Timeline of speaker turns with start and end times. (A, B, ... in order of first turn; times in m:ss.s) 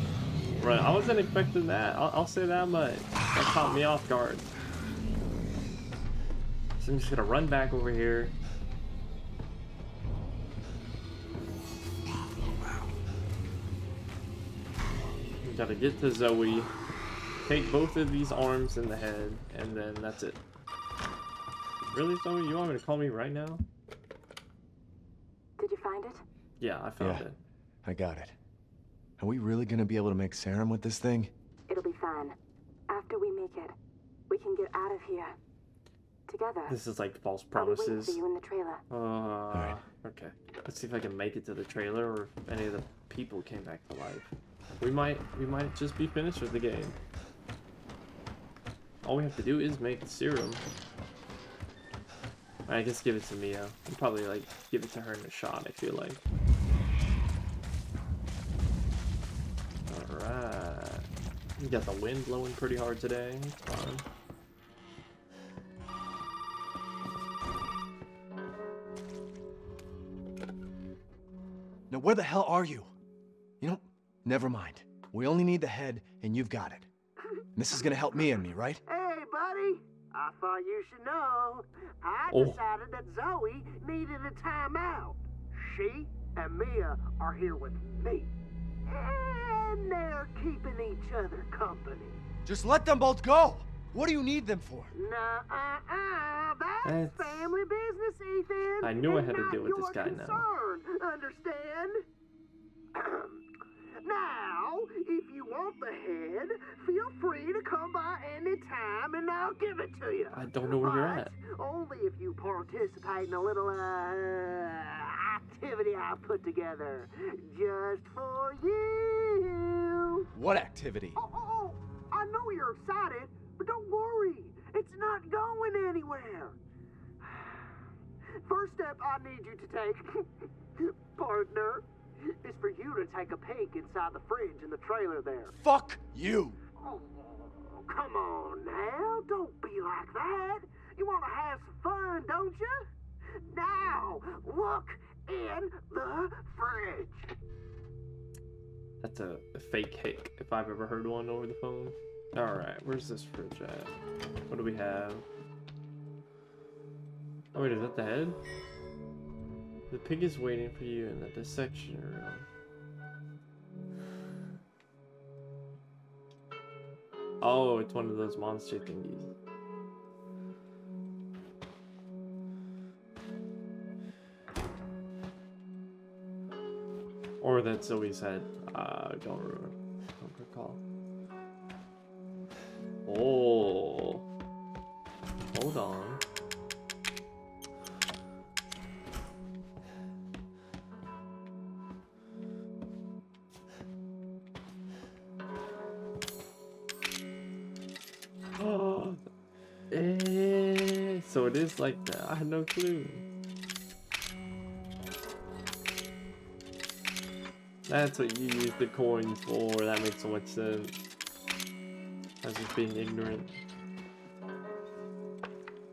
0:00.6-0:04.4 A
0:06.8-0:08.3 A
0:15.4-0:16.7 A
0:17.4-0:20.4 A
0:21.9-0:23.6 A
0:25.6-0:26.2 B
0:26.6-0:27.4 A
0:27.0-0:27.3 C
0:27.8-0:28.3 C
0:29.2-0:31.3 C
0:31.7-0:32.4 B
0:32.9-0:33.7 B
0:34.3-0:35.4 B
0:36.3-0:36.7 B
0:36.7-0:38.2 A
0:37.5-0:38.8 B
0:38.9-0:47.0 A
0:39.5-0:39.8 C
0:49.0-0:50.6 A
0:52.7-0:56.2 A
0:59.9-1:01.1 A
1:01.6-1:04.0 A
1:11.9-1:12.9 C
1:13.6-1:16.9 C
1:17.6-1:18.8 C
1:18.9-1:28.3 D
1:22.3-1:22.6 A
1:28.8-1:32.2 D
1:32.4-1:34.9 C
1:34.9-1:42.0 D
1:36.8-1:37.5 A
1:38.8-1:40.4 A
1:42.9-1:43.4 D
1:44.0-2:00.3 D
1:50.3-1:51.3 A
2:00.3-2:01.2 C
2:01.2-2:06.6 D
2:07.2-2:07.8 D
2:08.4-2:15.5 D
2:15.6-2:16.6 C
2:16.8-2:22.8 D
2:23.5-2:27.3 D
2:29.0-2:33.9 A
2:34.5-2:35.2 A
2:37.5-2:38.4 A
2:39.9-2:42.5 A
2:47.4-2:49.3 A
2:57.4-3:00.8 A
3:03.0-3:04.2 A
3:05.5-3:06.2 A
3:18.6-3:19.2 A
3:19.9-3:23.2 A
3:27.8-3:31.0 A
3:32.4-3:33.6 A